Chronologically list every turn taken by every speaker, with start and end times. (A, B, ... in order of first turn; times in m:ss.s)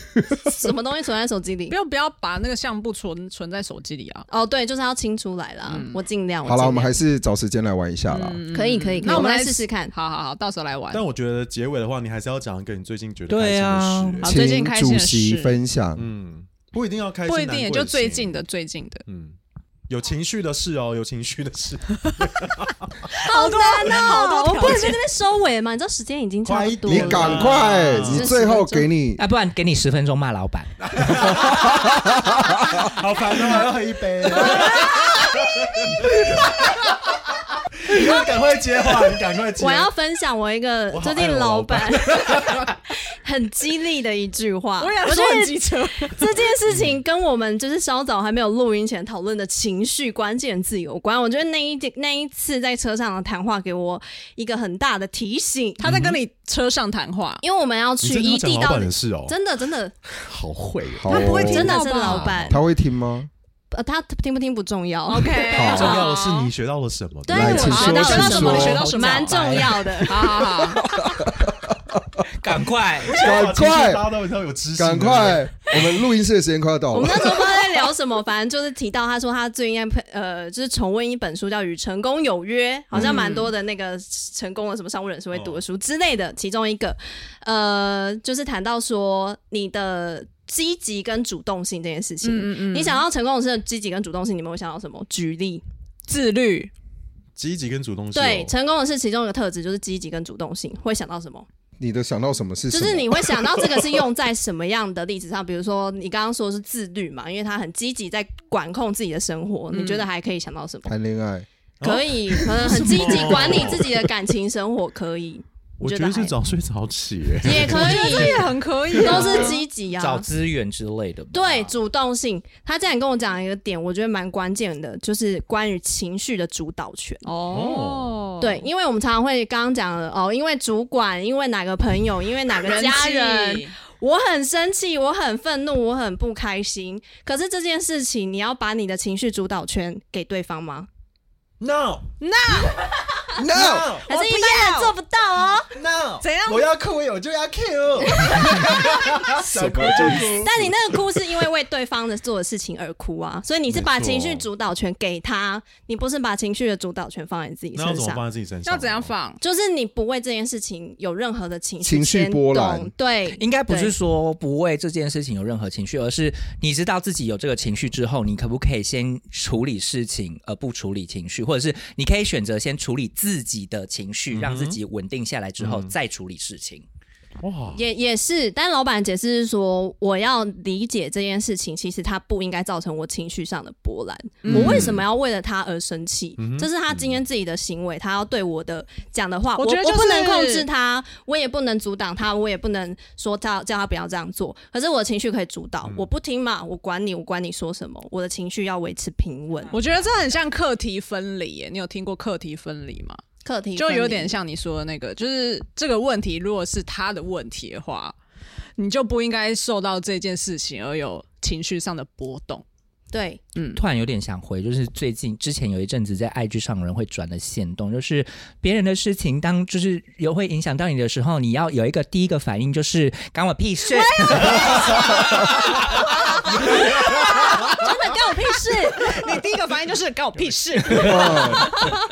0:00.4-0:01.8 A
0:01.7-0:04.3 B
0:04.3-0:06.9 A
0:05.7-0:06.0 B
0:06.4-0:08.4 C
0:08.1-0:11.0 B
0:08.5-0:09.9 A
0:10.9-0:14.4 D
0:13.3-0:14.2 E
0:14.2-0:15.6 B
0:14.2-0:16.1 C
0:16.0-0:18.4 D
0:17.3-0:19.0 B
0:19.0-0:19.4 D
0:19.9-0:23.0 D
0:23.1-0:28.9 A
0:23.2-0:25.0 B
0:26.4-0:28.3 D
0:26.9-0:29.2 C
0:29.2-0:30.7 E
0:30.8-0:37.0 D
0:31.3-0:32.8 C
0:34.4-0:35.4 A
0:37.7-0:39.9 D
0:39.6-0:55.8 A
0:40.9-0:42.7 D
0:44.8-0:46.4 B
0:46.7-0:47.0 D
0:55.8-0:57.4 B
0:55.8-0:56.2 D
0:57.4-1:00.0 A
0:58.0-0:59.4 D
1:00.2-1:02.5 D
1:00.9-1:01.7 C
1:01.1-1:02.5 B
1:01.1-1:02.6 A
1:02.5-1:03.3 C
1:03.7-1:06.4 A
1:05.1-1:06.5 B
1:05.5-1:06.0 C
1:05.7-1:08.0 D
1:07.2-1:10.8 A
1:07.3-1:09.0 C
1:07.4-1:10.9 B
1:09.4-1:09.6 E
1:10.9-1:12.0 C
1:12.4-1:13.2 E
1:13.0-1:15.7 D
1:13.2-1:14.0 C
1:14.8-1:17.3 C
1:16.9-1:35.6 A
1:22.9-1:23.3 D
1:22.9-1:23.5 B
1:25.3-1:25.6 D
1:32.2-1:33.0 B
1:36.1-1:36.7 B
1:37.4-1:38.5 D
1:38.1-1:41.5 A
1:41.8-1:43.6 C
1:42.7-1:50.9 A
1:49.7-1:50.1 B
1:50.9-1:51.5 C
1:51.8-1:54.1 D
1:51.8-1:56.4 A
1:55.8-1:58.3 D
1:57.4-2:00.3 A
1:57.7-1:59.6 B
1:59.0-1:59.5 D
2:00.0-2:01.8 E
2:01.3-2:07.3 A
2:07.2-2:08.7 B
2:07.5-2:08.2 D
2:08.4-2:20.9 A
2:12.5-2:13.7 B
2:21.6-2:22.0 D
2:22.2-2:22.8 B
2:23.4-2:24.0 C
2:23.5-2:24.0 D
2:23.6-2:24.9 F
2:24.1-2:25.7 A
2:25.8-2:30.4 F
2:26.2-2:26.7 B
2:28.1-2:38.2 A
2:29.4-2:30.8 D
2:33.7-2:34.4 D
2:37.7-2:39.1 D
2:38.6-2:39.4 B
2:39.4-2:43.9 A
2:41.8-2:42.9 C
2:43.4-2:56.8 E
2:54.3-2:54.8 D
2:55.6-2:55.9 D
2:57.4-2:57.8 D
2:57.7-3:20.0 A
3:04.4-3:05.0 D
3:04.5-3:04.9 B
3:04.5-3:05.0 C
3:06.4-3:07.2 D
3:09.6-3:10.7 B
3:15.8-3:16.1 D
3:19.7-3:23.2 B
3:23.4-3:24.3 A
3:23.8-3:28.1 B
3:28.8-3:32.6 B
3:33.1-3:33.4 A
3:33.5-3:33.8 B
3:33.7-3:45.8 E
3:44.0-3:44.9 A
3:44.3-3:45.3 B
3:46.5-3:49.1 A
3:46.6-3:51.9 B
3:50.9-3:51.8 C